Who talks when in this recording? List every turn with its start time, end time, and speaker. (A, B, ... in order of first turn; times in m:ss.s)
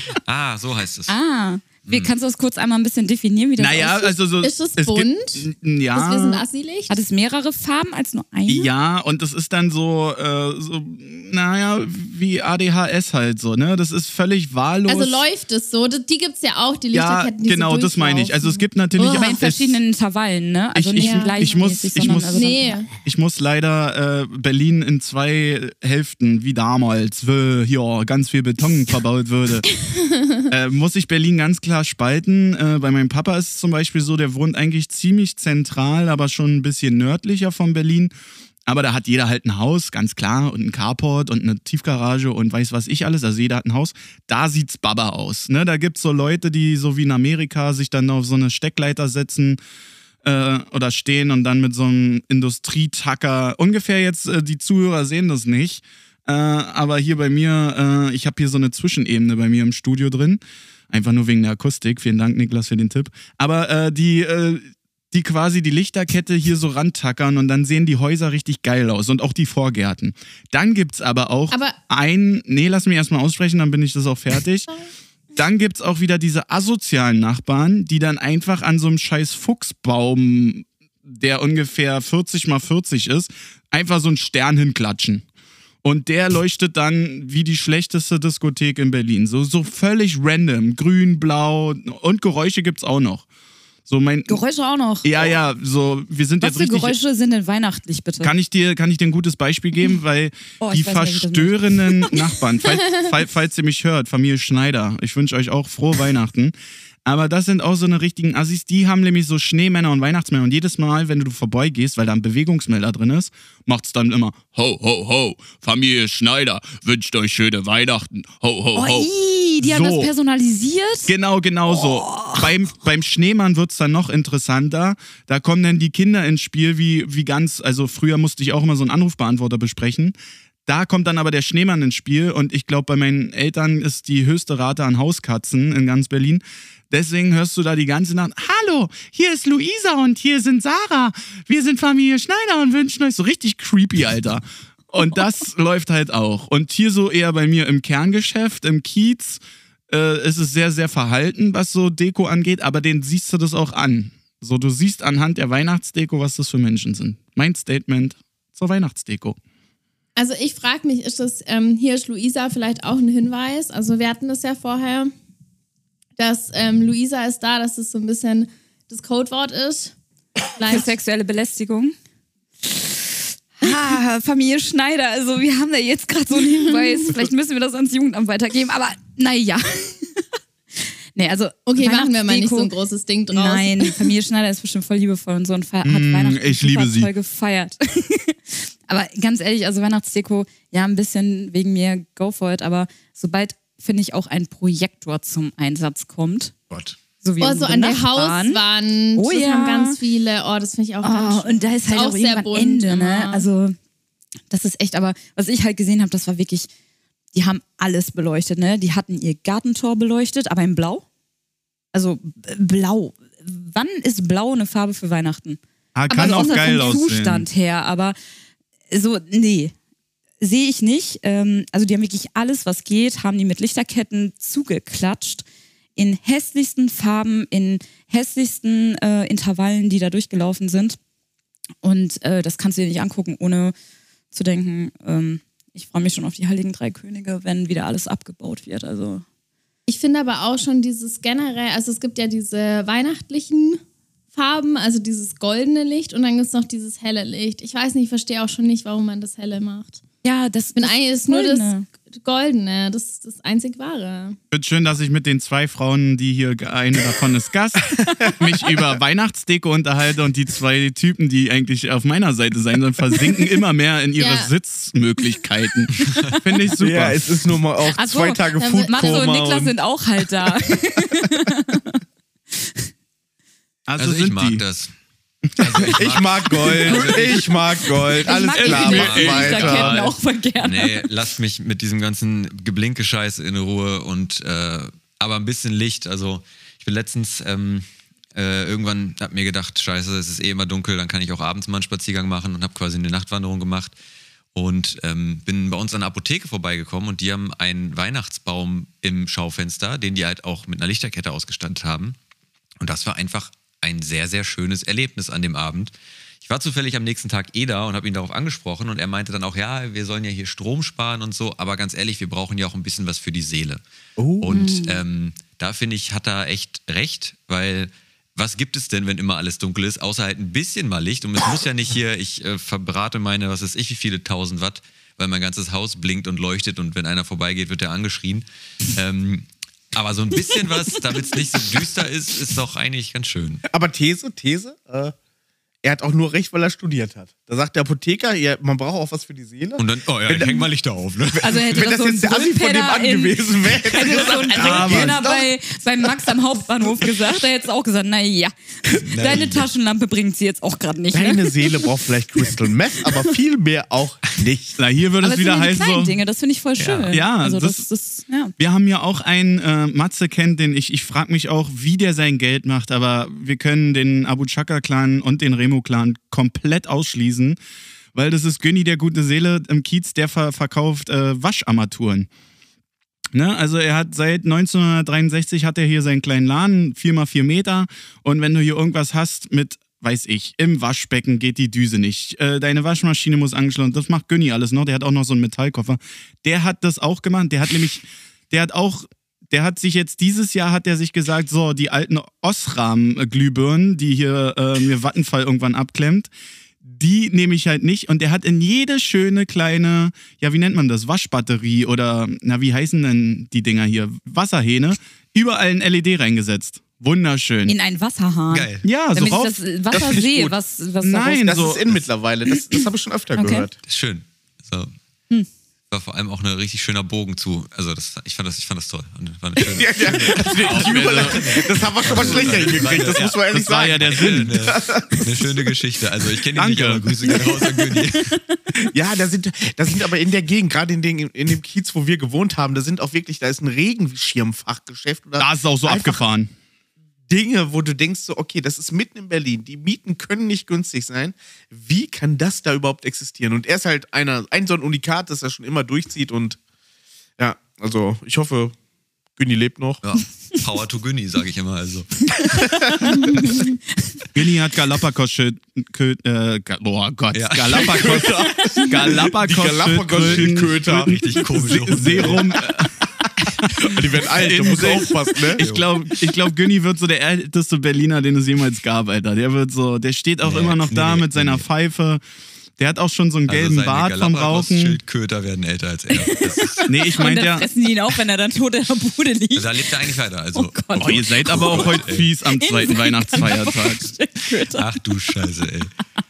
0:00.2-0:01.2 A
0:01.1-0:04.2 B
0:01.9-0:02.1 A
0:03.6-0:06.4 C
0:04.4-0:05.4 D
0:06.0-0:06.9 D
0:06.9-0:08.7 B
0:08.5-0:15.2 C
0:14.9-0:19.4 D
0:16.9-0:19.8 C
0:19.0-0:22.8 B
0:20.8-0:29.7 C
0:21.0-0:21.6 D
0:22.3-0:22.9 D
0:29.8-0:30.5 D
0:30.5-0:38.1 C
0:38.7-0:49.6 C
0:50.2-1:14.7 C
1:11.5-1:11.8 D
1:15.4-1:25.2 C
1:25.8-1:33.3 C
1:33.9-1:34.4 C
1:34.3-1:35.1 B
1:35.0-1:37.0 C
1:36.4-1:38.3 B
1:38.2-1:46.5 C
1:40.6-1:42.2 B
1:47.0-2:00.1 C
1:58.8-2:01.1 B
2:01.1-2:10.2 C
2:01.7-2:02.5 B
2:10.7-2:39.4 C
2:40.2-2:45.1 D
2:46.2-2:49.9 D
2:50.6-2:50.9 D
2:50.7-2:52.0 B
2:52.7-2:52.9 B
2:53.6-3:00.2 B
3:01.2-3:02.7 B
3:01.7-3:04.1 D
3:03.3-3:16.5 B
3:05.8-3:07.1 C
3:17.2-3:18.6 B
3:17.4-3:23.5 D
3:19.2-3:20.0 B
3:21.0-3:23.8 B
3:24.5-3:26.7 B
3:27.3-3:31.0 B
3:31.9-3:38.2 B
3:36.0-3:37.5 C
3:38.9-3:39.7 B
3:40.4-3:45.4 B
3:46.0-3:51.0 B
3:51.8-3:53.7 B
3:54.3-3:59.2 B
3:59.9-4:03.8 D
4:04.3-4:10.0 D
4:10.2-4:11.9 B
4:10.8-4:14.4 D
4:14.5-4:27.3 C
4:24.2-4:24.5 D
4:26.8-4:29.7 E
4:27.9-4:32.0 B
4:28.6-4:29.2 D
4:33.9-4:34.6 C
4:34.0-4:34.9 A
4:35.5-4:35.9 C
4:35.6-4:37.6 A
4:35.8-4:40.1 E
4:37.0-4:37.2 C
4:38.2-4:41.1 B
4:38.5-4:40.2 C
4:38.9-4:39.3 A
4:40.6-4:54.0 A
4:54.6-5:02.2 A
5:02.8-5:13.8 A
5:14.2-5:14.5 E
5:14.4-5:33.7 A
5:14.5-5:15.0 B
5:33.7-5:35.2 E
5:35.8-5:40.7 E
5:39.8-5:41.6 A
5:41.3-5:45.5 E
5:41.4-5:51.9 B
5:44.5-5:45.3 C
5:49.0-5:49.7 A
5:51.1-5:54.8 E
5:54.8-5:56.2 C
5:55.2-5:58.5 B
5:56.8-5:57.1 A
5:57.1-5:57.9 C
5:58.6-6:07.6 C
6:08.1-6:12.3 C
6:13.3-6:36.3 C
6:36.8-6:47.8 C
6:47.7-6:51.7 B
6:48.5-6:48.9 A
6:48.8-6:49.6 C
6:49.9-6:50.6 E
6:51.0-6:51.9 C
6:51.4-6:53.8 E
6:53.4-6:53.7 B
6:53.8-6:54.9 A
6:55.9-7:08.3 A
6:59.7-7:05.5 E
7:00.5-7:02.6 C
7:03.5-7:04.7 C
7:06.6-7:07.2 C
7:07.4-7:08.6 B
7:08.8-7:16.2 E
7:15.4-7:16.5 C
7:17.3-7:26.6 E
7:27.4-7:28.8 E
7:29.4-7:30.0 E
7:30.0-7:32.7 A
7:32.7-7:33.1 E
7:33.0-7:33.6 B
7:34.4-7:52.2 C
7:37.3-7:38.4 A
7:37.7-7:41.2 E
7:38.5-7:38.9 B
7:40.1-7:42.7 A
7:43.9-7:45.6 E
7:45.6-7:45.9 A
7:50.4-7:51.6 A
7:52.8-7:55.0 C
7:53.5-7:56.9 A
7:56.1-8:02.0 B
7:56.9-7:57.7 C
7:59.6-8:02.3 A
8:01.0-8:04.0 C
8:02.5-8:05.0 B
8:04.7-8:05.9 A